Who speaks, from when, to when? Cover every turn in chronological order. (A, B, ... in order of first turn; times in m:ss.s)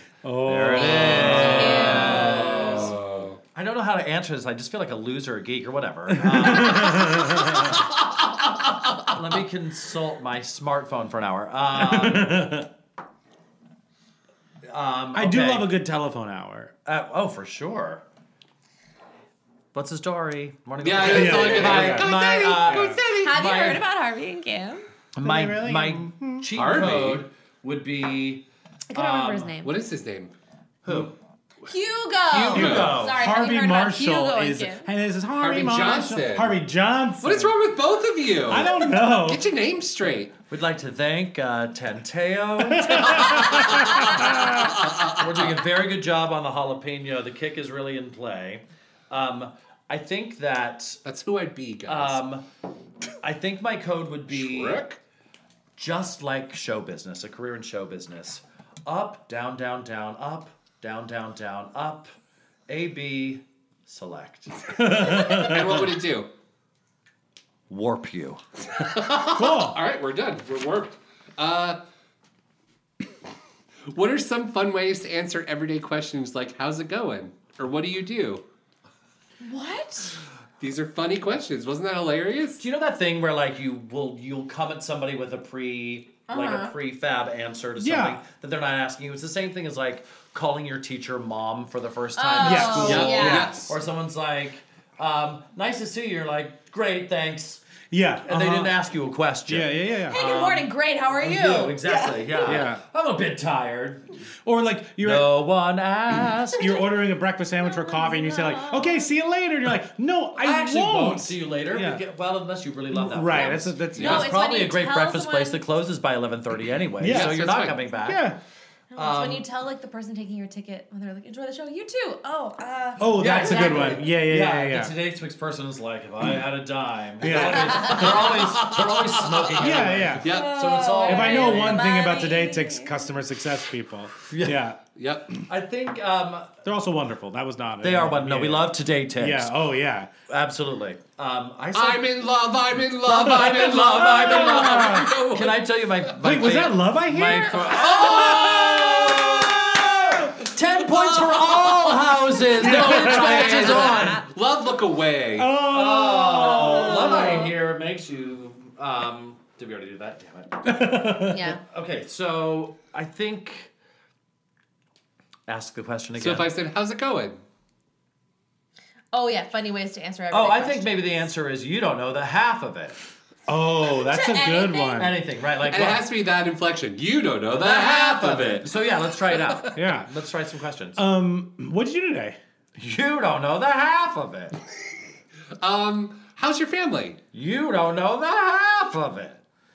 0:00.2-0:02.3 A
0:00.4-0:07.2 B
0:00.9-0:03.4 C
0:00.9-0:02.4 D
0:06.1-0:07.7 A
0:09.0-0:12.5 B
0:11.7-0:12.7 A
0:14.6-0:15.7 B
0:15.1-0:16.7 A
0:16.8-0:18.0 B
0:19.7-0:23.8 B
0:20.8-0:23.6 C
0:21.0-0:23.0 A
0:23.1-0:24.8 D
0:25.1-0:29.5 B
0:25.2-0:26.5 A
0:26.5-0:27.2 C
0:28.9-0:29.7 D
0:29.6-0:30.3 C
0:30.8-0:31.1 B
0:31.7-0:34.9 D
0:32.3-0:33.2 B
0:32.5-0:33.0 C
0:32.5-0:37.5 A
0:35.3-0:36.6 C
0:37.2-0:40.3 C
0:38.5-0:39.4 A
0:40.5-0:43.9 B
0:42.7-0:44.6 A
0:43.3-0:43.9 C
0:44.6-0:45.2 C
0:45.1-0:51.0 B
0:51.0-0:52.2 C
0:51.9-0:52.4 B
0:53.2-0:54.8 B
0:54.3-0:55.0 C
0:55.8-1:02.1 B
1:02.7-1:04.6 B
1:04.7-1:05.8 A
1:05.0-1:06.3 C
1:07.7-1:08.4 B
1:08.8-1:11.8 C
1:09.3-1:09.8 A
1:13.9-1:18.4 C
1:19.4-1:20.2 D
1:20.6-1:22.6 C
1:22.6-1:37.6 B
1:26.3-1:26.8 D
1:27.8-1:28.2 A
1:32.2-1:33.6 D
1:32.4-1:33.7 A
1:32.8-1:33.7 C
1:37.9-1:38.8 A
1:38.3-1:44.0 B
1:39.5-1:40.2 A
1:40.1-1:42.6 D
1:42.4-1:42.8 A
1:44.4-1:45.3 A
1:45.0-1:46.8 B
1:46.5-1:52.0 A
1:47.6-1:49.1 D
1:50.3-1:58.3 B
1:52.9-1:54.3 A
1:53.3-1:55.6 D
1:54.0-1:54.3 C
1:57.0-1:58.4 A
1:57.0-1:57.8 C
1:58.9-2:04.0 D
1:59.0-1:59.4 B
2:03.0-2:04.9 A
2:03.0-2:11.9 B
2:07.2-2:08.3 A
2:07.9-2:08.2 D
2:08.5-2:10.8 C
2:09.6-2:10.3 A
2:10.2-2:13.0 D
2:11.0-2:14.8 A
2:14.3-2:14.7 B
2:15.0-2:15.3 C
2:15.5-2:16.6 B
2:16.6-2:20.1 A
2:17.8-2:19.6 B
2:20.3-2:22.1 B
2:21.7-2:25.6 C
2:23.0-2:34.2 B
2:23.7-2:25.1 A
2:26.2-2:28.6 A
2:27.7-2:29.3 C
2:28.0-2:28.4 D
2:31.0-2:31.9 C
2:32.5-2:35.5 C
2:32.5-2:34.1 A
2:32.8-2:34.1 D
2:35.4-2:37.3 A
2:35.6-2:41.0 B
2:36.5-2:37.5 D
2:40.6-2:41.6 A
2:41.2-2:41.6 D
2:41.6-2:43.7 B
2:45.5-2:46.5 B
2:46.2-2:47.4 C
2:49.1-2:51.1 D
2:50.3-2:53.0 B
2:53.5-2:55.2 A
2:53.9-2:55.2 D
2:55.0-2:56.0 B
2:55.6-2:58.7 C
2:57.5-3:01.0 B
2:59.2-2:59.6 C
2:59.7-3:00.1 A
3:01.0-3:02.4 A
3:02.8-3:04.5 B
3:05.6-3:07.2 C
3:07.3-3:09.4 B